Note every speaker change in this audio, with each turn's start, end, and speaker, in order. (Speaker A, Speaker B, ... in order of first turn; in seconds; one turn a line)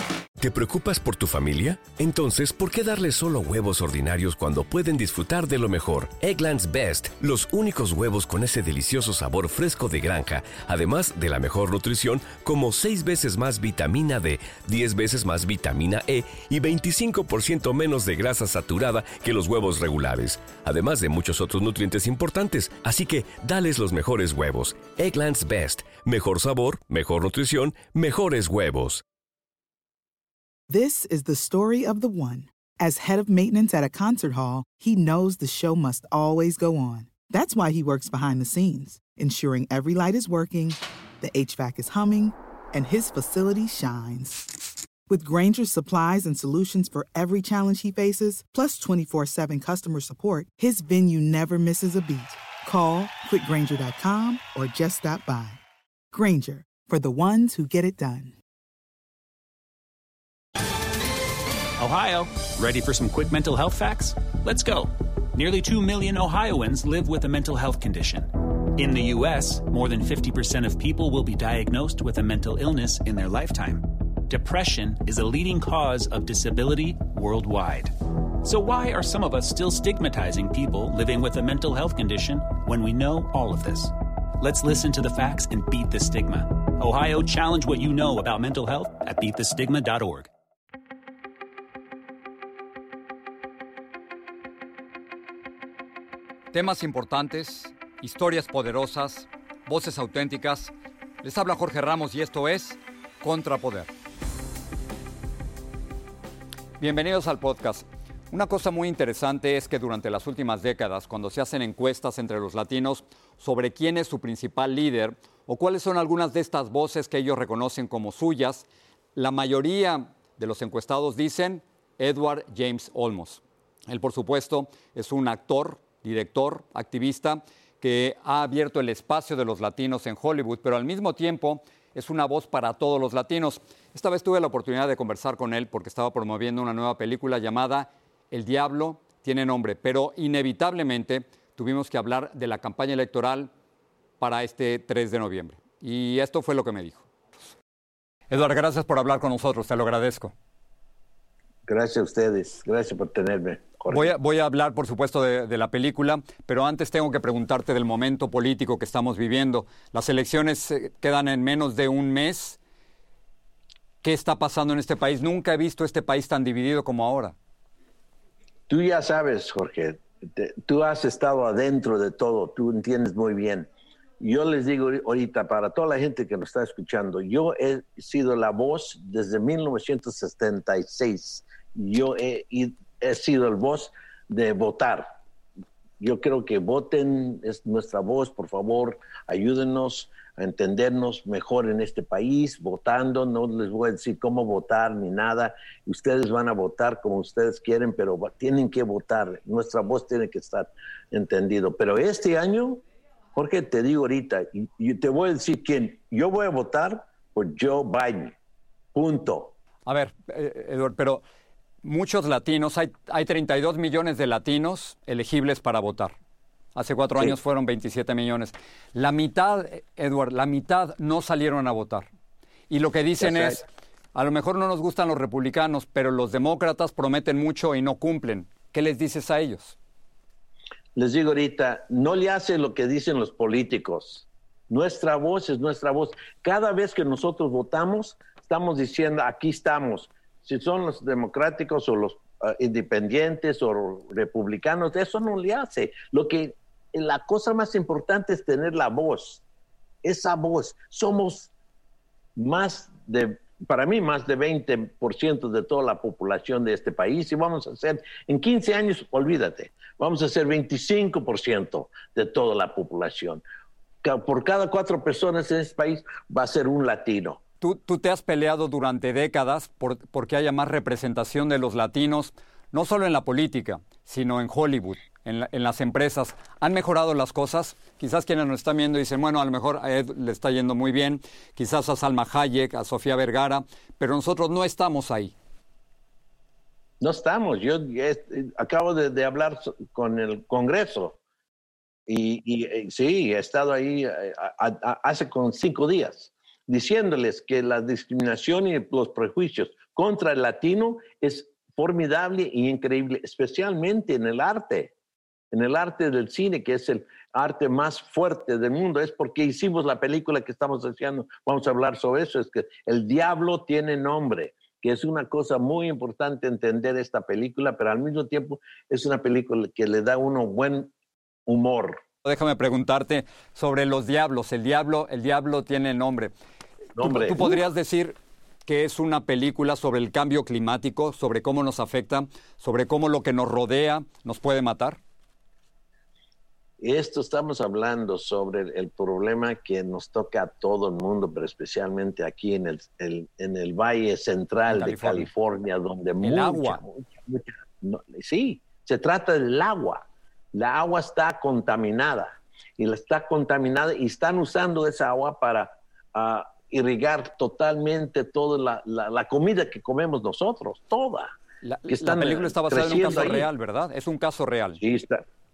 Speaker A: 0.4-29.0
Speaker B: 30.7-44.5
Speaker B: 45.1-55.6
Speaker B: 56.1-58.3
Speaker C: 61.8-90.3
Speaker D: 96.5-103.9
Speaker D: 106.8-143.5
Speaker D: 144.2-147.1
Speaker D: 148.3-150.3
Speaker E: 151.7-154.1
Speaker D: 153.9-162.6
Speaker D: 164.0-167.3
Speaker E: 168.7-185.1
Speaker E: 186.0-202.8
Speaker E: 203.3-208.3
Speaker E: 208.9-209.5
Speaker D: 209.8-211.2
Speaker D: 211.8-216.1
Speaker D: 216.7-222.1
Speaker D: 222.7-229.8
Speaker E: 223.2-223.6
Speaker E: 230.9-249.4
Speaker E: 250.0-251.5
Speaker E: 252.3-263.4
Speaker E: 264.0-267.4
Speaker D: 267.6-285.3
Speaker E: 287.0-291.2
Speaker E: 292.1-304.9
Speaker E: 305.5-320.9
Speaker E: 321.5-322.0
Speaker D: 322.2-326.3
Speaker E: 327.0-327.7
Speaker D: 327.0-335.0
Speaker E: 336.8-361.3
Speaker D: 344.7-345.3
Speaker D: 346.2-346.8
Speaker D: 361.6-364.8
Speaker E: 361.9-363.5
Speaker E: 364.8-365.2